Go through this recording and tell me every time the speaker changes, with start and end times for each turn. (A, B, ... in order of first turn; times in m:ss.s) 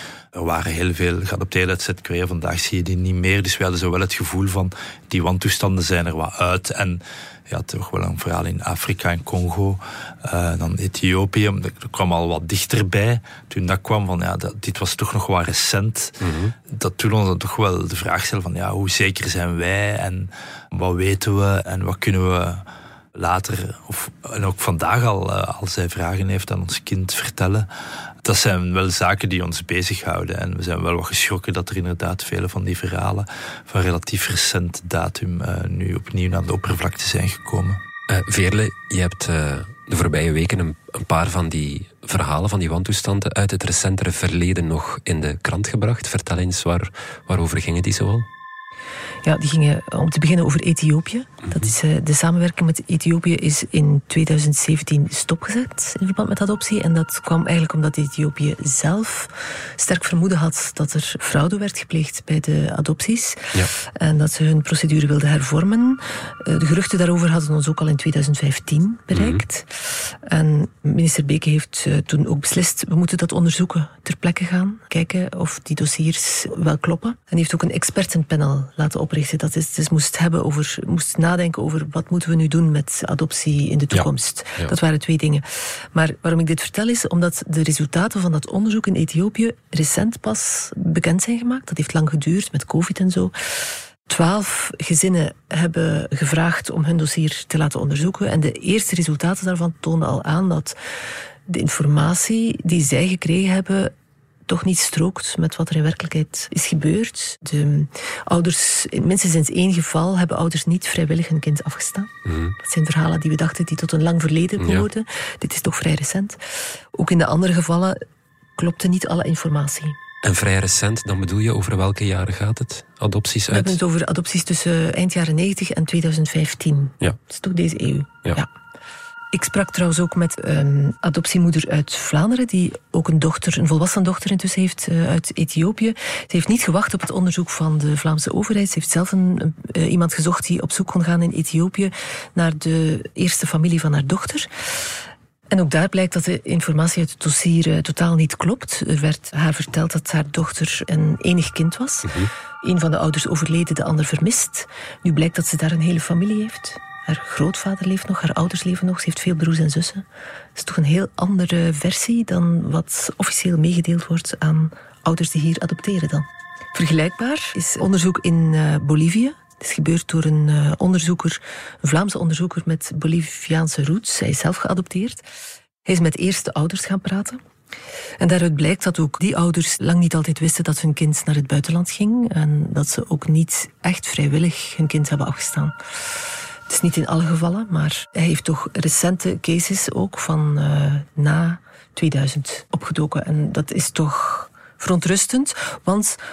0:00.3-0:16.1 A
0:16.2-0:16.6 B
0:16.7-0:22.6 A
0:23.2-0:27.7 A
0:28.2-0:37.8 A
0:38.1-0:48.3 B
0:49.2-1:33.6 C
1:09.1-1:09.4 B
1:23.9-1:24.8 B
1:34.1-1:40.8 C
1:41.5-1:43.9 C
1:44.5-1:56.4 C
1:52.2-1:52.6 B
1:54.6-1:54.9 B
1:56.9-1:58.0 C
1:58.6-2:00.0 C
2:00.2-2:03.8 B
2:03.5-2:08.5 C
2:09.3-2:24.5 C
2:25.5-2:32.1 C
2:32.0-2:32.3 B
2:32.6-2:40.0 C
2:40.6-2:55.2 C
2:55.8-2:57.4 C
2:58.2-3:05.8 C
3:06.7-3:16.2 C